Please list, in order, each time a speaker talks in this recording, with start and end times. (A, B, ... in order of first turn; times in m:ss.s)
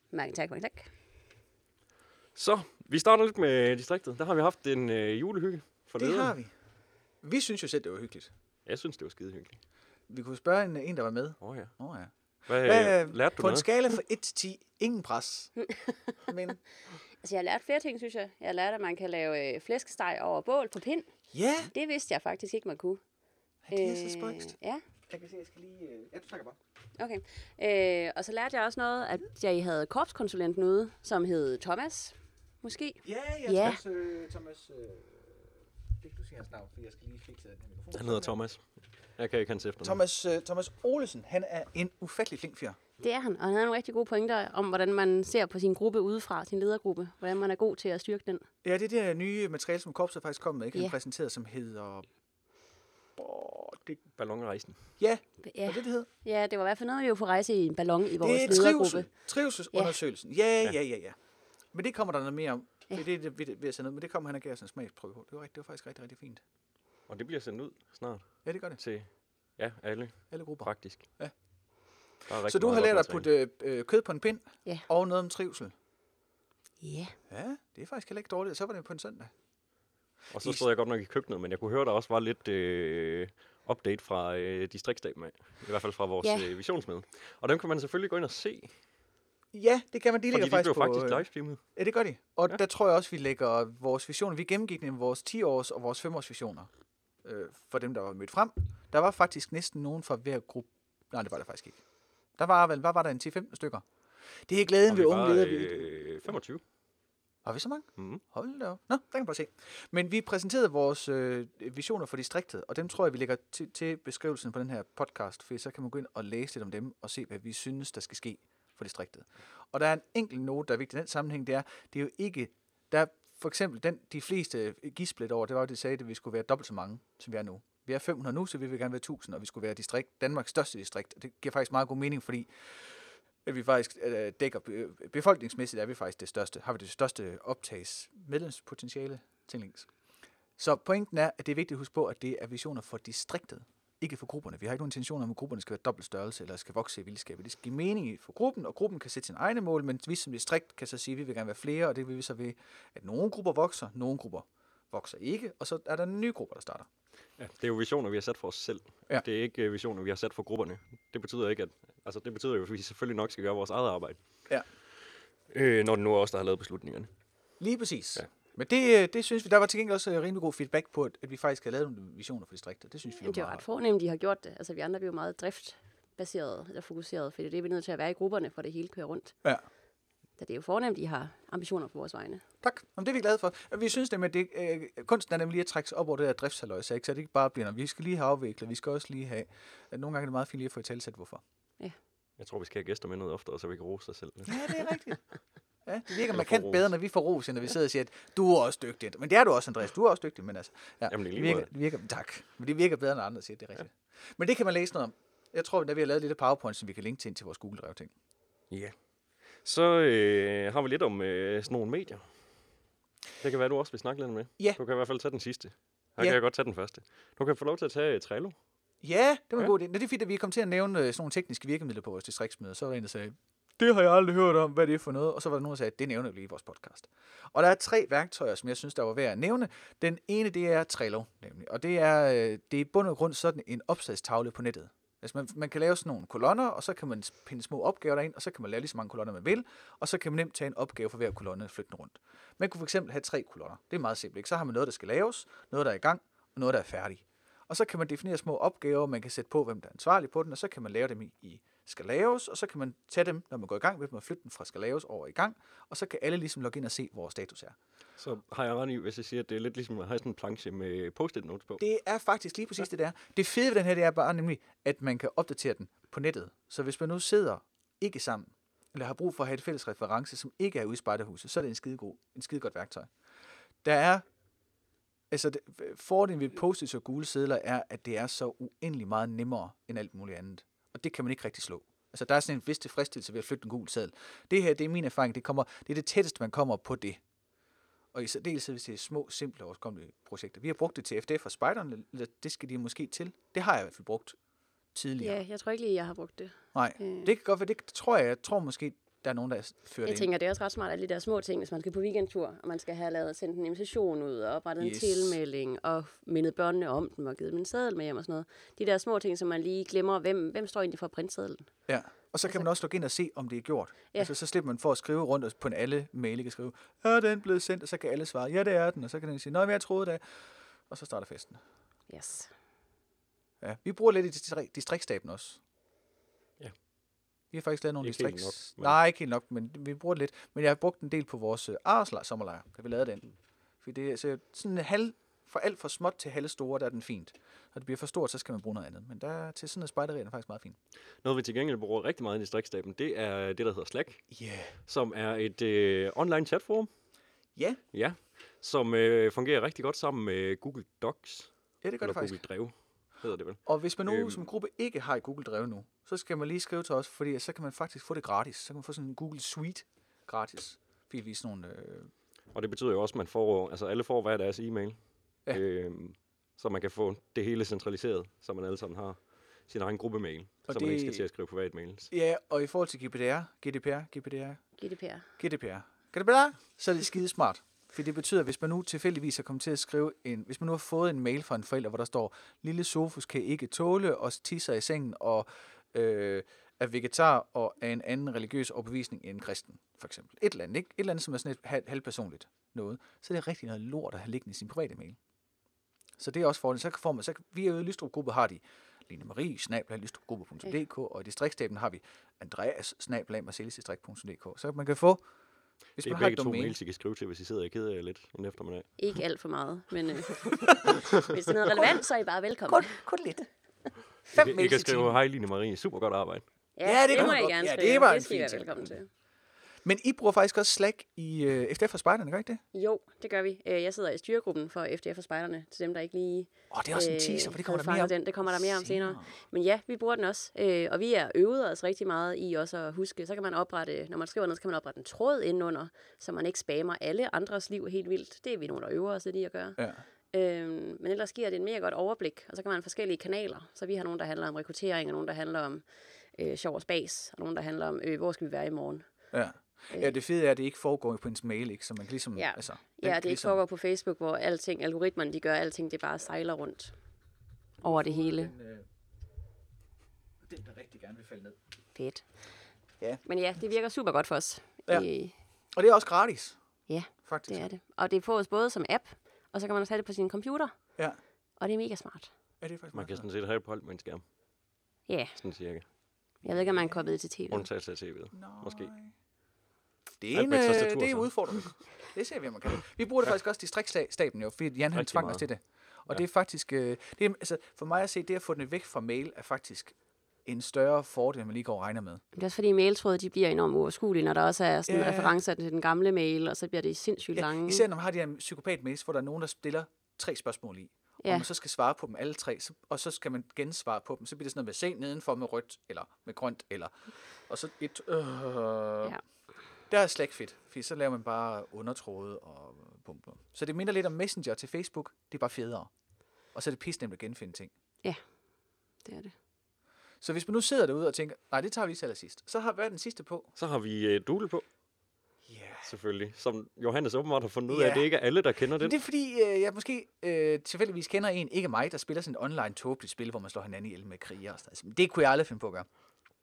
0:00.1-0:00.9 A
0:02.3-0:06.3 B
0:06.0-0:06.5 C
0:07.2-0:08.3 C
0:08.6-0:09.6 B
0:10.1-0:15.5 C
0:11.4-0:11.7 B
0:12.5-0:13.6 B
0:15.6-0:16.2 A
0:16.3-0:16.6 C
0:17.2-0:21.1 A
0:21.3-0:21.7 C
0:21.7-0:23.0 A
0:23.6-0:24.5 C
0:23.7-0:24.8 A
0:25.1-0:26.6 C
0:27.0-0:33.8 A
0:33.0-0:38.3 C
0:37.9-0:40.0 B
0:39.8-0:42.8 C
0:43.0-0:48.5 A
0:48.6-0:52.1 C
0:53.2-0:54.0 C
0:54.2-0:54.8 B
0:55.0-0:56.1 C
0:55.4-0:59.1 A
0:58.2-1:01.2 C
1:01.7-1:06.4 C
1:07.1-1:11.0 B
1:08.4-1:08.8 C
1:10.3-1:11.3 C
1:12.2-1:13.3 B
1:12.4-1:15.7 C
1:16.8-1:17.1 A
1:17.3-1:19.3 C
1:20.3-1:28.7 B
1:26.2-1:26.5 A
1:29.5-1:36.7 C
1:30.3-1:31.6 B
1:37.2-1:41.8 C
1:42.4-1:43.8 C
1:44.4-1:45.9 C
1:44.9-1:46.6 B
1:47.4-2:19.9 C
1:48.0-1:48.2 B
2:20.6-2:36.9 C
2:37.4-2:44.2 B
2:45.5-2:47.1 B
2:47.6-2:53.6 C
2:53.2-2:59.3 A
3:00.4-3:02.4 A
3:02.6-3:11.4 C
3:12.4-3:14.8 B
3:14.5-3:15.2 C
3:15.8-3:28.1 C
3:16.3-3:16.9 B
3:21.1-3:21.7 B
3:29.6-3:32.2 B
3:33.4-3:38.6 B
3:39.0-4:17.8 C
4:18.2-4:21.8 B
4:21.8-4:33.1 C
4:33.8-4:34.2 C
4:35.3-4:47.2 C
4:48.1-4:54.4 C
4:54.9-4:55.4 C
4:55.2-4:57.3 A
4:56.7-5:00.3 C
5:00.0-5:11.7 A
5:04.8-5:05.4 C
5:11.9-5:20.2 C
5:20.9-5:21.6 C
5:22.1-5:22.5 A
5:23.6-5:25.6 C
5:27.5-5:40.8 C
5:28.0-5:29.0 B
5:41.2-5:44.2 B
5:44.3-5:44.8 C
5:44.8-5:46.9 B
5:47.5-5:47.8 C
5:47.9-5:51.5 B
5:51.8-5:52.4 C
5:52.0-5:54.4 B
5:53.6-6:02.1 C
6:02.5-6:05.0 B
6:05.5-6:12.1 B
6:10.7-6:11.2 C
6:12.1-6:14.6 C
6:14.8-6:15.2 A
6:15.4-6:35.2 C
6:36.2-6:45.2 C
6:46.0-6:46.8 C
6:46.0-6:48.9 B
6:49.0-6:53.0 A
6:50.6-6:51.0 C
6:51.7-6:52.0 C
6:52.7-6:53.4 C
6:54.3-6:55.2 C
6:54.3-6:56.4 B
6:56.8-6:59.1 A
6:56.8-6:58.9 C
6:59.8-7:02.6 C
7:02.7-7:19.8 A
7:06.7-7:09.3 C
7:19.8-7:20.0 C
7:20.3-7:25.8 A
7:26.3-7:29.0 A
7:29.3-7:33.6 C
7:32.3-7:36.9 A
7:37.8-7:38.5 A
7:37.8-7:38.9 C
7:40.4-7:41.6 C
7:41.9-7:42.3 A
7:43.2-7:45.3 A
7:45.7-7:46.6 C
7:46.9-7:50.7 A
7:47.2-7:47.7 C
7:51.6-7:52.3 A
7:52.6-7:53.2 C
7:52.9-7:54.2 B
7:55.1-7:55.4 A
7:55.4-7:55.8 B
7:56.4-7:57.6 A
7:56.5-7:57.0 C
7:57.5-7:58.9 B
7:58.3-7:59.1 C
8:00.2-8:12.2 C
8:00.3-8:01.8 B
8:04.9-8:05.5 B
8:12.3-8:17.8 A
8:14.9-8:15.4 C
8:17.4-8:29.1 C
8:21.2-8:21.5 A
8:29.9-8:35.9 C
8:36.5-8:37.7 C
8:39.0-8:39.3 A
8:40.2-8:43.5 C
8:43.6-8:44.6 B
8:45.4-8:45.9 C
8:45.8-8:48.9 B
8:47.7-8:48.1 C
8:48.8-8:55.9 C